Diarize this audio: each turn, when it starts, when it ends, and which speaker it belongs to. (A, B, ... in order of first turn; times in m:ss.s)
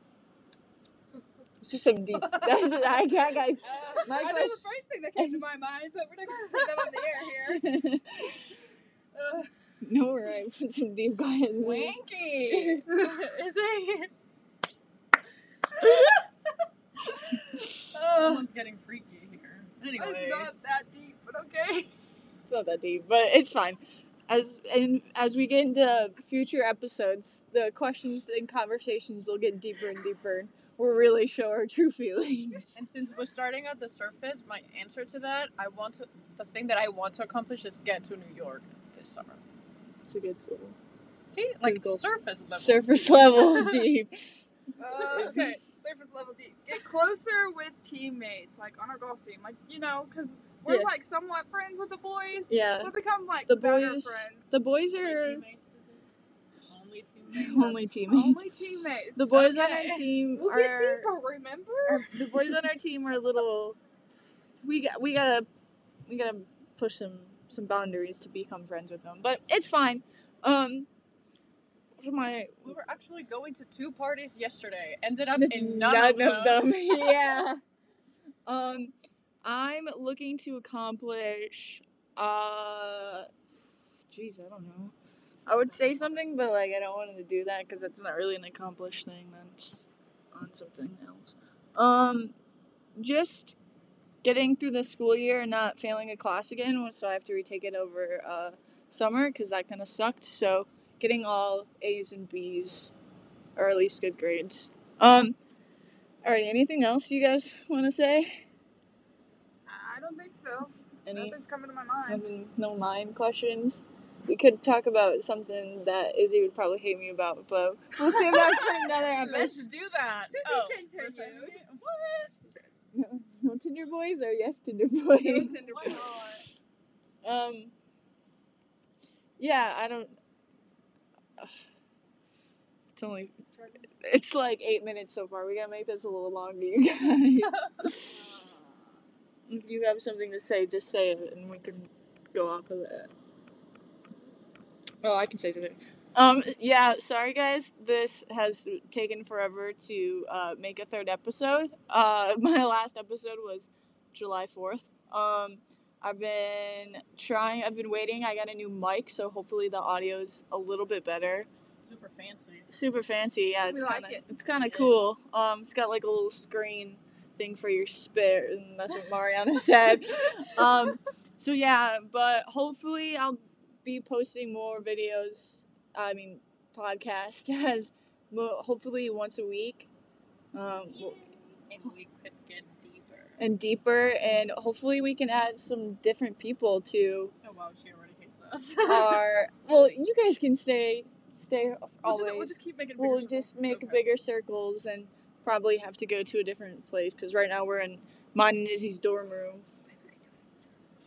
0:01.6-0:04.6 A
0:02.2-0:03.0 B
0:03.6-0:07.7 B
0:07.5-0:08.6 A
0:09.1-0:09.5 B
0:09.8-0:12.8 A
0:11.6-0:14.1 C
0:12.9-0:13.2 B
0:17.7-0:20.7 C
0:17.9-0:18.4 B
0:19.9-0:21.9 B
0:22.5-0:32.8 A
0:32.8-0:39.4 C
0:40.1-0:40.8 A
0:41.3-0:43.9 C
0:41.6-0:42.0 A
0:42.6-0:44.4 A
0:44.8-0:54.5 B
0:45.1-0:45.4 A
0:52.5-0:52.9 A
0:53.5-0:55.4 A
0:55.0-0:56.1 C
0:56.7-0:57.9 C
0:57.3-0:58.4 A
0:58.1-0:59.5 B
0:59.2-1:01.1 A
0:59.3-1:00.1 C
1:00.3-1:02.6 B
1:01.9-1:03.8 A
1:04.6-1:05.5 A
1:06.1-1:10.9 A
1:12.0-1:12.7 A
1:12.6-1:17.3 C
1:15.4-1:17.6 A
1:18.5-1:23.3 A
1:24.1-1:24.9 A
1:25.5-1:32.3 A
1:33.0-1:33.6 A
1:34.2-1:42.9 A
1:43.6-1:45.4 A
1:46.2-1:48.4 A
1:49.7-1:52.3 B
1:51.1-1:51.4 A
1:52.1-1:59.7 A
1:58.3-1:59.5 B
1:59.2-2:02.4 C
2:00.3-2:01.6 B
2:02.9-2:06.0 A
2:05.2-2:06.5 B
2:05.6-2:06.4 C
2:07.2-2:07.7 A
2:09.4-2:10.2 A
2:13.0-2:13.4 A
2:14.0-2:18.1 A
2:18.0-2:19.0 B
2:19.5-2:23.1 A
2:25.0-2:41.5 A
2:41.8-2:42.7 C
2:42.7-2:59.9 A
2:43.7-2:44.3 B
2:44.6-2:45.0 C
3:00.5-3:01.2 A
3:00.9-3:03.4 C
3:03.4-3:07.4 A
3:07.4-3:09.3 C
3:08.8-3:19.7 A
3:12.0-3:13.8 B
3:13.6-3:14.0 C